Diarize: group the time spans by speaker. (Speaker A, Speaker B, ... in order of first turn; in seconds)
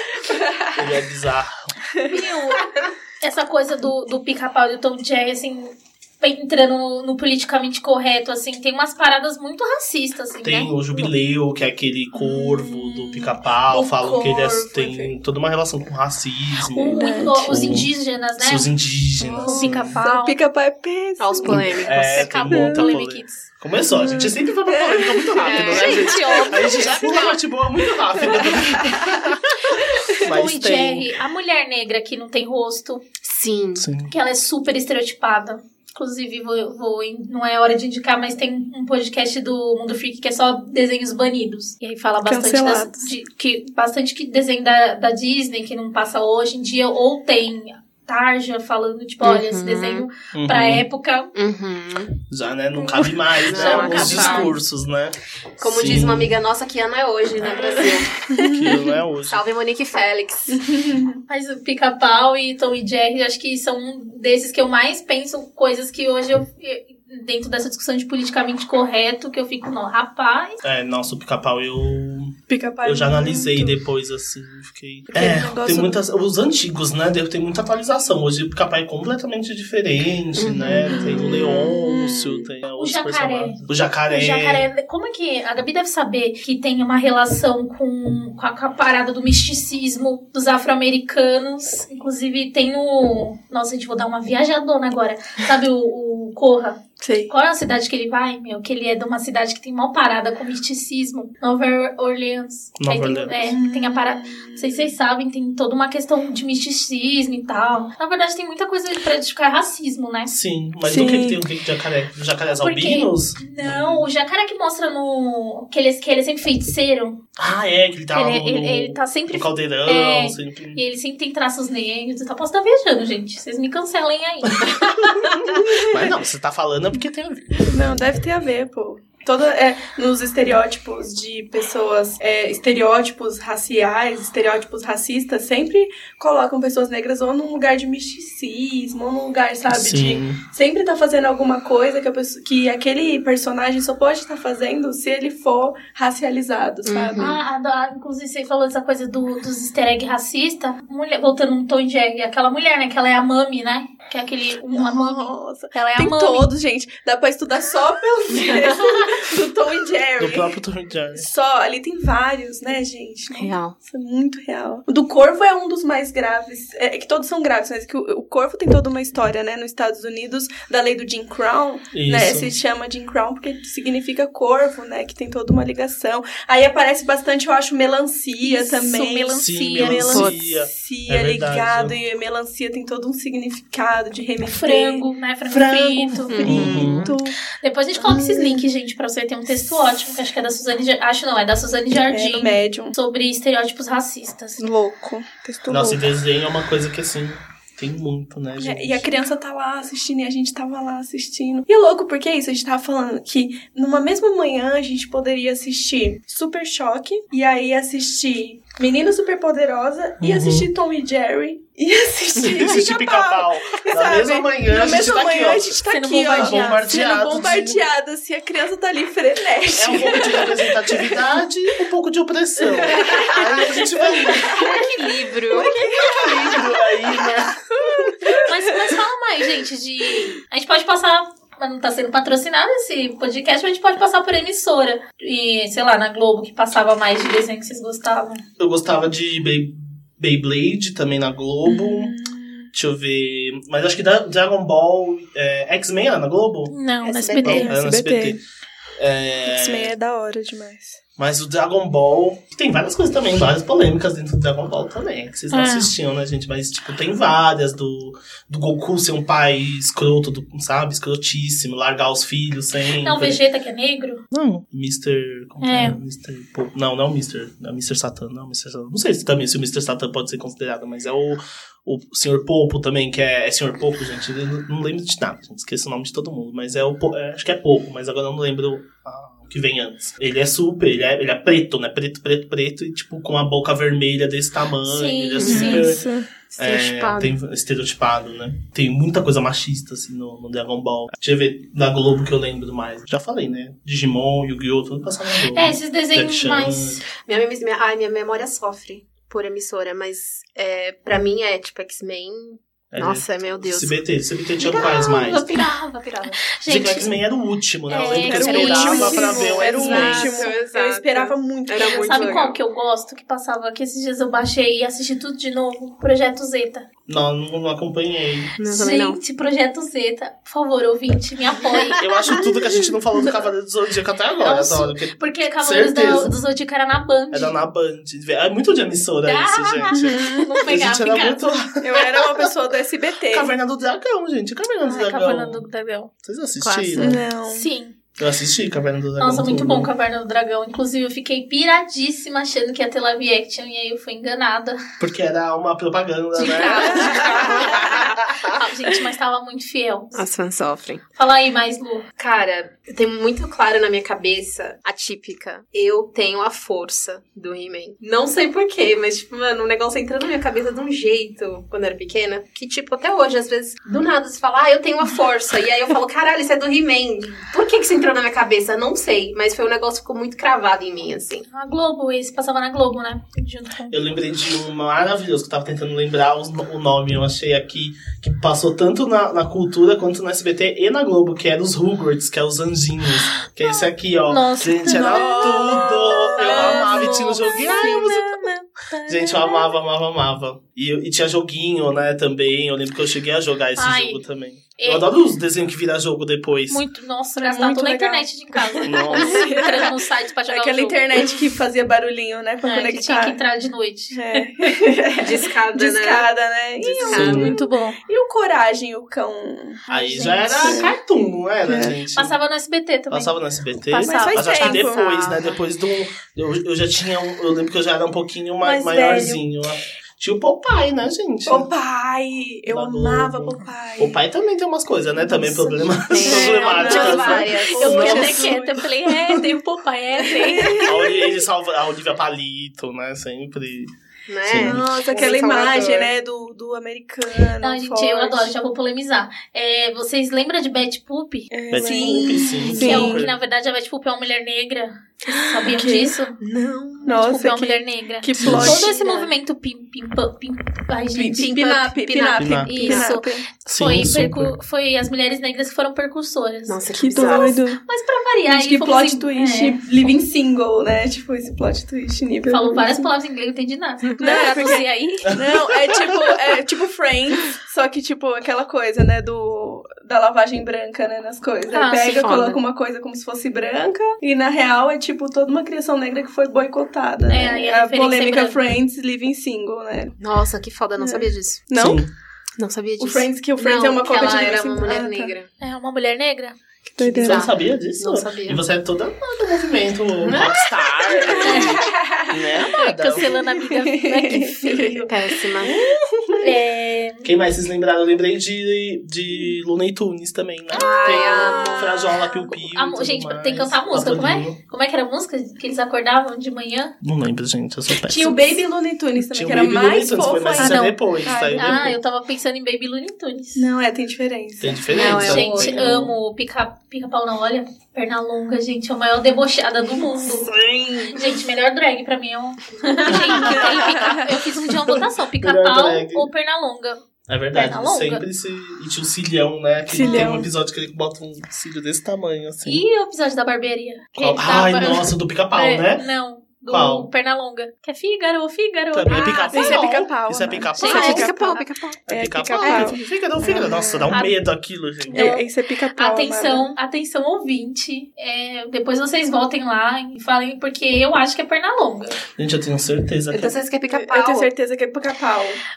Speaker A: 0.7-1.8, 10.4-20.0, 21.4-31.1, 33.8-34.1, 50.3-50.8, 52.3-56.4, 58.4-59.4, 70.6-84.7, 102.8-103.6, 110.3-114.1, 117.4-120.8, 124.5-127.9, 139.7-140.4, 160.2-161.3, 171.9-172.5, 179.4-182.0, 186.5-187.1, 195.7-199.1, 210.2-210.7, 212.4-217.8, 219.7-224.6, 226.0-228.2, 238.6-242.1, 242.7-246.7, 247.4-248.4, 249.0-249.9, 251.2-263.4, 264.3-286.1, 286.6-297.0, 302.9-305.5, 306.7-310.4, 317.1-318.5, 322.0-326.3, 327.3-332.5, 333.3-335.6, 336.2-337.2, 338.2-339.9, 345.0-348.5, 373.9-388.5, 389.1-396.8, 398.9-399.6, 407.1-407.5, 409.9-412.4, 413.1-421.7, 422.7-428.4, 430.8-433.9, 434.4-434.8, 441.7-443.4, 448.4-448.8, 452.4-452.7, 453.7-454.6, 481.8-482.1, 487.2-493.3, 497.2-504.6, 507.0-508.6, 509.2-512.0, 514.6-516.2, 523.1-524.2, 524.9-526.3, 527.3-532.8, 534.1-536.1, 536.7-537.1, 538.9-541.3, 542.1-545.3, 552.4-553.6
Speaker B: 2.0-10.8, 16.7-18.7, 19.3-20.4, 22.0-23.5, 25.5-27.4, 30.1-33.0, 34.1-51.3, 53.5-54.6, 61.3-70.6, 82.8-110.3, 112.5-117.2, 118.1-125.1, 147.2-156.5, 178.4-180.2, 184.5-186.8, 187.6-194.6, 215.8-217.0, 225.5-225.8, 228.4-238.4, 246.7-247.7, 255.5-255.9, 263.0-264.2, 265.6-266.0, 284.9-285.9, 295.5-297.0, 304.7-307.1, 307.9-310.4, 311.8-316.9, 318.7-322.4, 324.4-327.6, 329.2-331.5, 334.9-336.1, 337.5-338.0, 339.2-344.8, 346.4-350.2, 351.2-352.1, 371.5-373.9, 384.3-389.7, 393.8-394.2, 394.8-395.1, 396.7-401.3, 402.6-404.5, 407.0-408.0, 409.9-410.9, 412.1-413.3, 413.9-414.5, 426.9-430.9, 437.6-441.5, 442.7-446.4, 447.1-451.6, 452.6-459.8, 462.5-465.4, 471.7-472.3, 477.3-478.6, 485.6-486.6, 491.4-491.8, 492.7-495.1, 496.4-497.3, 502.6-506.9, 510.6-511.0, 511.5-513.7, 515.0-520.5, 521.1-527.0, 527.5-528.2, 532.6-539.9, 540.8-541.4, 545.1-552.2
Speaker C: 12.2-15.1, 16.9-17.6, 19.2-21.9, 22.5-22.9, 23.9-26.8, 28.1-30.3, 42.2-43.1, 57.6-59.0, 60.5-61.2, 72.5-73.8, 75.1-76.0, 80.9-82.5, 97.0-97.3, 103.5-104.9, 110.8-111.4, 127.7-147.3, 154.7-160.6, 161.2-187.4, 188.0-188.7, 192.1-192.9, 194.6-196.1, 198.6-221.3, 222.8-224.8, 225.5-227.3, 227.9-228.9, 241.7-242.7, 247.3-248.4, 249.4-251.0, 285.4-286.3, 308.1-312.5, 329.9-330.5, 331.8-333.5, 337.0-337.7, 384.9-387.6, 397.4-403.4, 404.1-409.8, 410.6-410.9, 411.6-412.0, 414.0-415.1, 418.6-419.4, 421.5-424.2, 425.3-428.9, 430.3-431.4, 434.5-438.5, 441.5-443.3, 445.3-446.1, 447.1-448.9, 451.1-453.5, 457.0-457.8, 458.5-463.1, 464.2-480.2, 481.0-482.0, 483.0-485.3, 487.0-487.5, 491.1-492.4, 493.6-496.4, 500.8-502.2, 508.0-511.9, 513.6-515.3, 523.5-524.2, 529.9-530.5, 539.5-544.1, 545.1-546.7, 553.9-555.6
Speaker D: 21.2-22.4, 25.4-27.3, 33.2-33.9, 49.2-50.1, 51.4-52.2, 53.4-54.5, 55.6-60.6, 80.4-81.3, 146.8-147.4, 163.3-163.8, 186.3-187.2, 224.4-225.7, 247.1-247.4, 285.4-285.9, 286.5-287.3, 297.2-304.0, 304.6-306.4, 309.1-312.6, 318.6-319.2, 321.6-322.9, 336.6-337.2, 347.2-347.9, 350.1-351.0, 352.2-371.5, 405.2-406.3, 406.8-407.5, 414.5-415.6, 426.1-428.4, 434.3-436.1, 441.9-442.3, 446.4-447.1, 448.5-449.3, 451.4-453.1, 456.7-457.6, 464.1-464.7, 472.2-472.6, 480.2-481.6, 482.6-485.5, 486.9-488.6, 490.2-491.3, 495.1-495.9, 500.7-502.1, 514.9-515.9, 540.8-542.0, 553.3-554.5